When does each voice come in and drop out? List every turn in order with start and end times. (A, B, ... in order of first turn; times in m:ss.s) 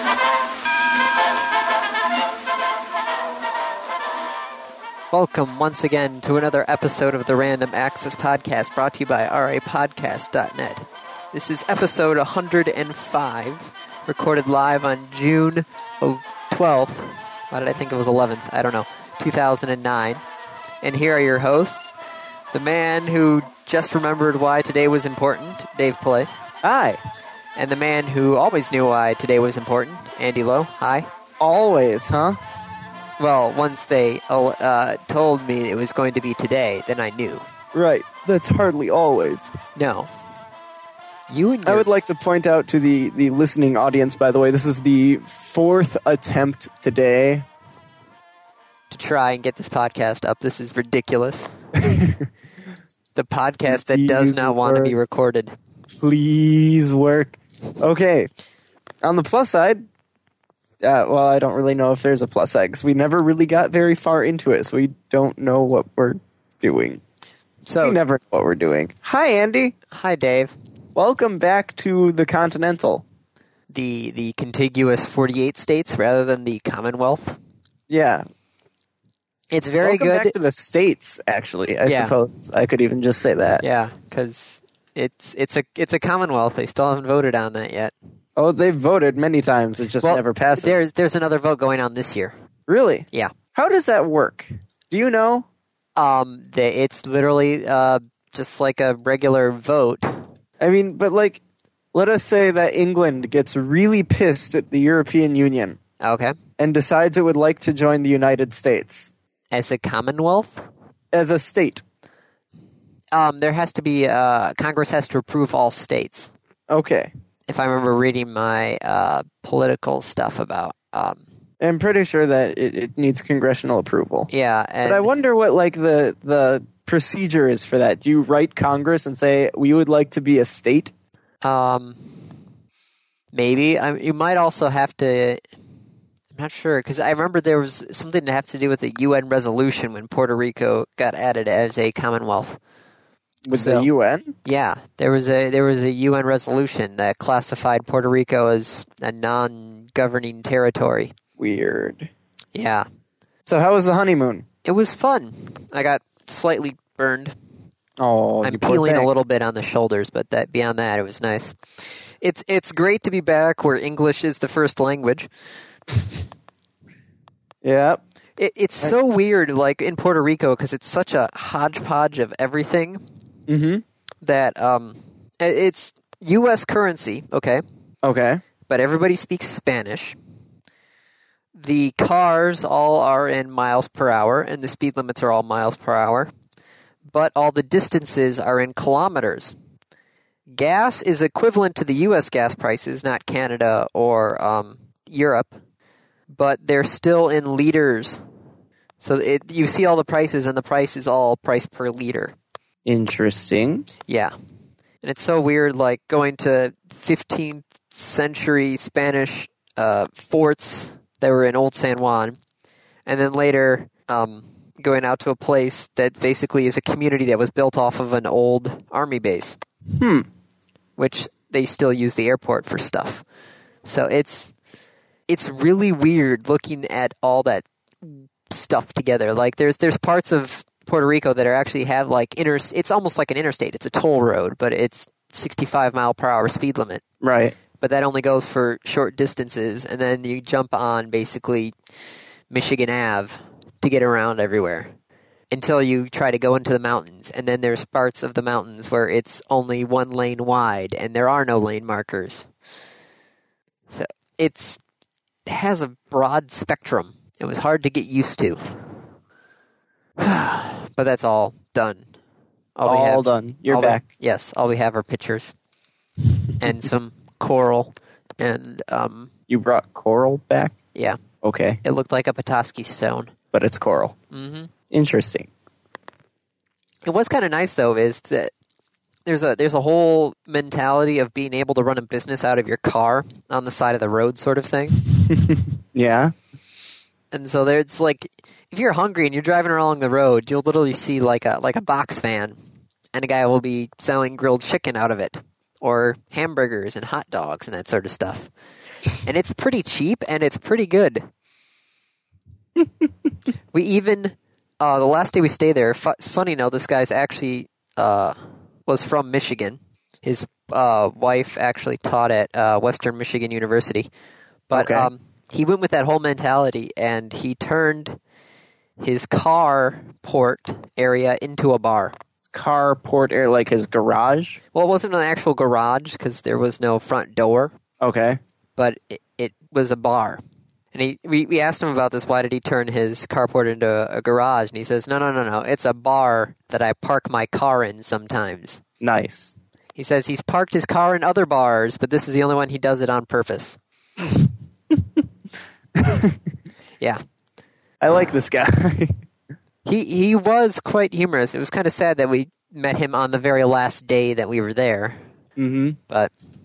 0:05.1-0:20.2 A
0:20.8-0:21.9 A
0:22.5-0:26.3 A
0:26.6-0:27.0 B
0:27.6-0:31.1 A
0:31.4-0:32.4 B
0:33.2-0:37.4 A
0:37.7-0:39.5 B
0:39.8-0:40.1 A
0:41.3-0:41.9 A
0:41.7-0:47.5 B
0:48.9-0:51.5 A
0:51.8-0:52.3 B
0:53.2-0:55.6 A
0:53.7-0:55.0 B
0:56.0-0:58.3 B
0:59.0-0:59.8 B
1:00.8-1:07.0 B
1:07.7-1:08.0 A
1:07.8-1:09.8 B
1:09.9-1:10.6 A
1:11.0-1:13.0 B
1:13.7-1:17.4 A
1:17.9-1:18.2 B
1:19.5-1:20.3 A
1:19.8-1:23.6 B
1:21.9-1:22.2 A
1:23.6-1:27.9 A
1:28.4-1:30.8 B
1:30.0-1:32.4 A
1:32.7-1:35.5 B
1:36.0-1:40.2 A
1:40.6-1:41.4 B
1:41.9-1:45.8 B
1:46.0-1:46.3 A
1:46.6-1:49.1 B
1:49.5-1:50.6 A
1:51.1-1:51.8 B
1:53.1-1:56.3 A
1:56.7-1:57.1 B
1:57.5-2:01.2 A
2:01.6-2:04.3 B
2:04.3-2:05.1 A
2:04.8-2:10.9 B
2:11.4-2:12.1 A
2:13.3-2:15.4 A
2:16.3-2:22.6 A
2:23.5-2:24.4 B
2:23.5-2:23.9 A
2:24.4-2:31.1 A
2:31.4-2:32.1 B
2:32.5-2:32.9 A
2:33.5-2:34.5 B
2:34.6-2:37.4 A
2:38.0-2:39.1 B
2:38.4-2:41.6 A
2:42.2-2:45.3 A
2:47.6-2:48.0 B
2:48.4-2:53.0 A
2:53.5-2:53.8 B
2:54.2-2:57.6 A
2:58.0-2:58.4 B
2:58.7-3:00.2 A
3:01.6-3:06.3 A
3:07.1-3:09.5 A
3:10.5-3:15.6 A
3:16.3-3:18.2 A
3:19.0-3:22.4 A
3:22.8-3:23.9 B
3:24.1-3:24.3 A
3:25.0-3:32.4 A
3:33.1-3:39.6 A
3:39.9-3:40.3 B
3:41.0-3:43.2 A
3:43.8-3:44.5 A
3:45.3-3:57.0 A
3:57.2-3:57.6 B
3:57.8-4:01.7 A
4:02.5-4:04.9 A
4:05.5-4:12.5 A
4:13.9-4:14.8 A
4:15.5-4:18.6 A
4:20.2-4:22.0 A
4:22.8-4:25.5 A
4:22.9-4:24.0 B
4:26.6-4:29.3 A
4:29.5-4:30.8 B
4:31.4-4:31.8 B
4:31.8-4:33.3 A
4:33.5-4:34.2 B
4:34.3-4:34.7 A
4:34.9-4:35.5 B
4:37.1-4:38.5 A
4:39.3-4:45.0 A
4:45.2-4:46.3 B
4:47.3-4:52.6 A
4:53.1-4:58.5 A
4:59.2-5:01.3 A
5:03.7-5:08.4 A
5:08.9-5:14.1 A
5:14.7-5:18.2 A
5:14.7-5:15.1 B
5:19.0-5:22.2 A
5:22.5-5:24.6 B
5:24.7-5:27.7 A
5:28.0-5:28.4 B
5:28.8-5:30.4 A
5:30.9-5:38.8 A
5:39.0-5:39.5 B
5:40.0-5:43.8 A
5:46.0-5:46.4 B
5:48.0-5:49.1 B
5:49.8-5:55.2 A
5:55.6-5:56.0 B